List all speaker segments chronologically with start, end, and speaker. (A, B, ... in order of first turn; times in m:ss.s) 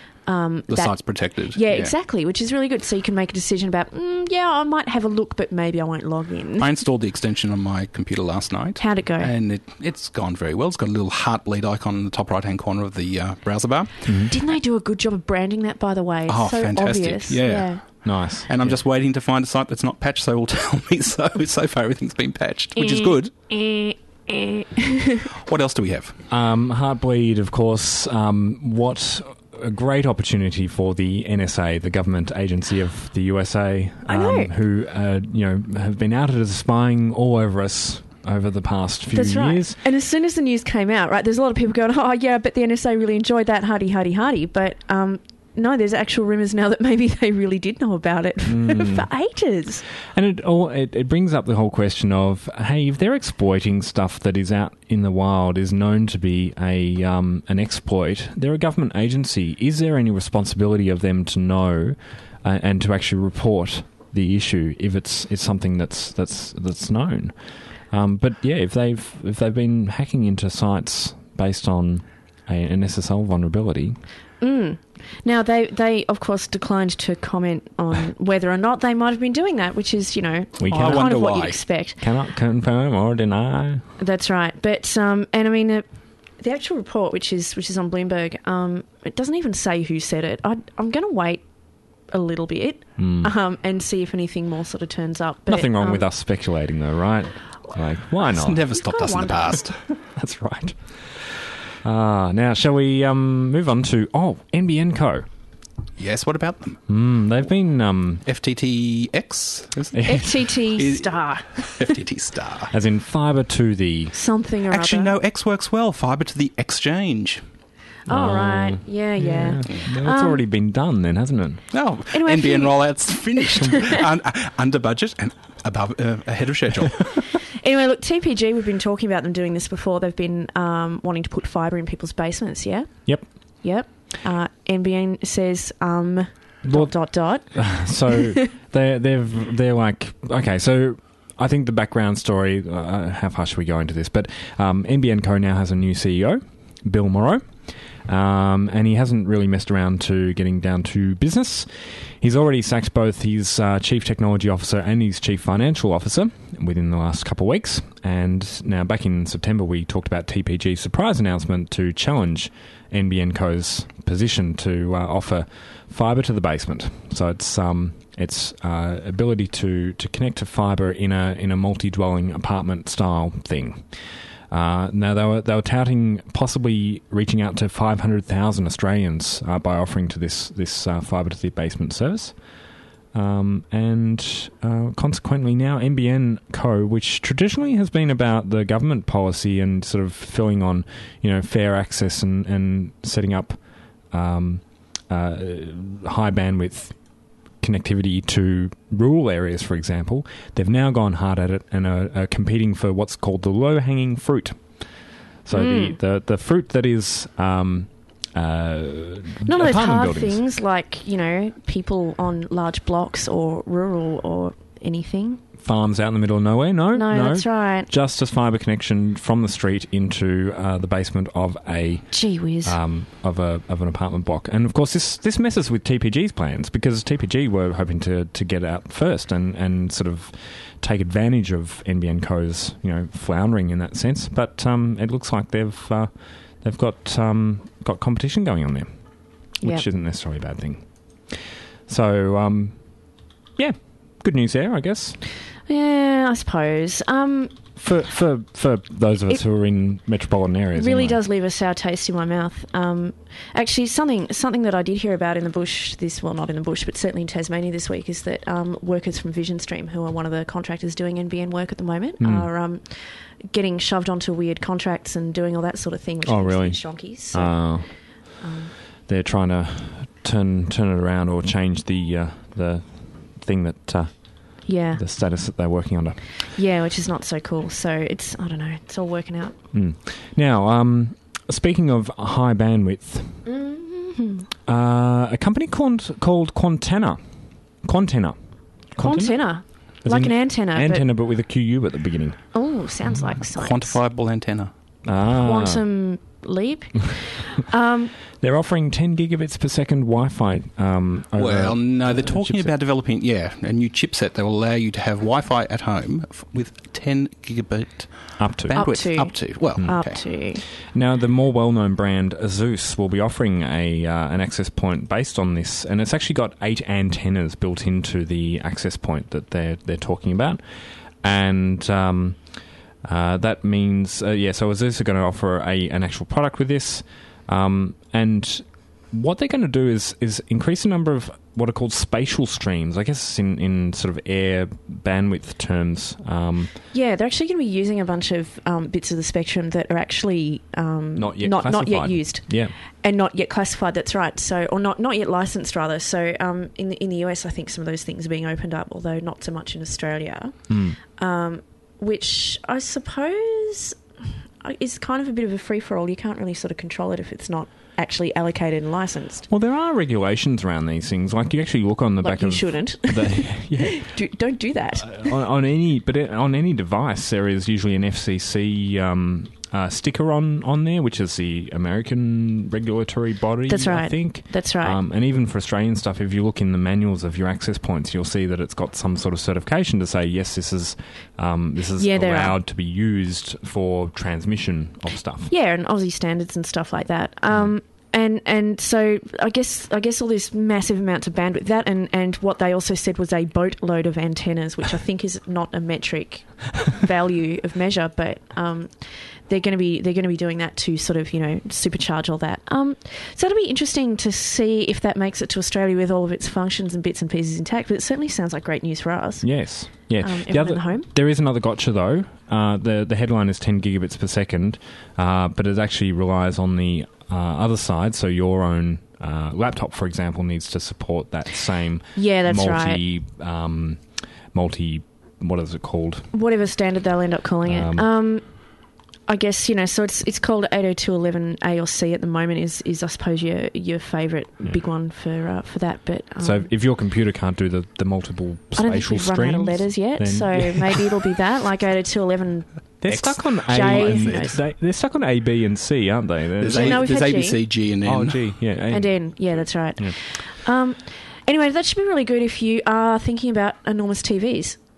0:00.3-0:06.7 A
0:00.7-0:01.9 B
0:06.6-0:14.1 B
0:08.8-0:09.3 A
0:14.1-0:14.3 C
0:14.2-0:17.8 A
0:16.3-0:23.3 B
0:18.0-0:18.8 C
0:22.8-0:25.3 A
0:25.4-0:26.2 B
0:26.3-0:39.8 C
0:34.1-0:34.5 A
0:39.1-0:49.8 A
0:48.4-0:49.1 C
0:50.1-1:07.4 C
1:07.9-1:14.0 C
1:14.4-1:22.0 A
1:20.6-1:21.2 C
1:20.7-1:21.6 B
1:22.0-1:23.8 C
1:24.0-1:25.8 A
1:26.4-1:31.4 A
1:32.1-1:36.0 A
1:33.0-1:33.3 C
1:35.5-1:38.7 C
1:38.3-1:39.8 B
1:38.7-1:39.6 A
1:40.1-1:45.3 C
1:46.0-1:46.8 B
1:46.9-1:48.2 C
1:48.2-1:52.7 B
1:49.9-1:50.2 C
1:50.0-1:51.9 A
1:52.7-1:54.1 C
1:54.1-1:55.1 A
1:54.7-1:57.4 B
1:58.1-2:00.4 A
1:58.1-2:01.7 C
2:01.7-2:07.1 B
2:02.1-2:02.9 A
2:07.6-2:12.9 A
2:13.6-2:18.3 A
2:16.6-2:27.5 C
2:28.0-2:54.0 C
2:54.5-3:02.4 C
3:03.1-3:13.6 C
3:14.1-3:17.0 C
3:17.6-3:24.6 C
3:25.4-3:30.4 C
3:25.5-3:26.0 A
3:29.5-3:35.4 A
3:35.6-3:56.1 C
3:36.9-3:37.9 A
3:42.1-3:42.8 A
3:56.6-3:58.9 C
3:59.6-3:59.9 A
3:59.6-4:02.8 C
4:03.6-4:05.2 C
4:05.7-4:07.6 A
4:07.8-4:11.2 C
4:10.8-4:27.6 A
4:22.2-4:22.5 C
4:26.2-4:27.9 C
4:28.4-4:28.7 A
4:29.1-4:36.2 C
4:34.7-4:35.0 A
4:36.5-4:39.6 A
4:39.7-4:43.4 C
4:43.5-4:44.5 A
4:44.7-4:47.2 C
4:47.8-4:48.4 C
4:48.9-4:49.4 C
4:49.0-4:51.1 A
4:50.0-4:52.4 C
4:52.5-4:54.0 A
4:53.6-4:54.7 B
4:55.0-4:55.8 C
4:55.4-4:58.1 A
4:58.4-5:02.7 C
5:01.4-5:10.2 B
5:08.4-5:09.0 C
5:08.7-5:10.6 A
5:09.8-5:10.0 C
5:10.9-5:20.6 C
5:21.2-5:22.4 C
5:23.0-5:36.7 C
5:36.9-5:50.6 A
5:41.2-5:42.7 C
5:50.7-5:51.0 C
5:51.2-5:54.0 A
5:54.6-5:59.5 A
5:59.5-6:04.2 C
6:02.2-6:05.4 A
6:05.0-6:25.5 C
6:13.7-6:15.0 A
6:22.0-6:22.6 A
6:25.5-6:51.1 A
6:49.4-7:06.3 C
7:02.2-7:03.0 A
7:06.3-7:08.4 A
7:07.6-7:08.1 C
7:09.3-7:16.7 A
7:16.4-7:21.2 C
7:18.8-7:24.6 A
7:23.0-7:27.1 C
7:23.1-7:24.5 B
7:26.6-7:28.5 B
7:26.7-7:27.6 A
7:28.0-7:30.2 C
7:28.9-7:34.8 A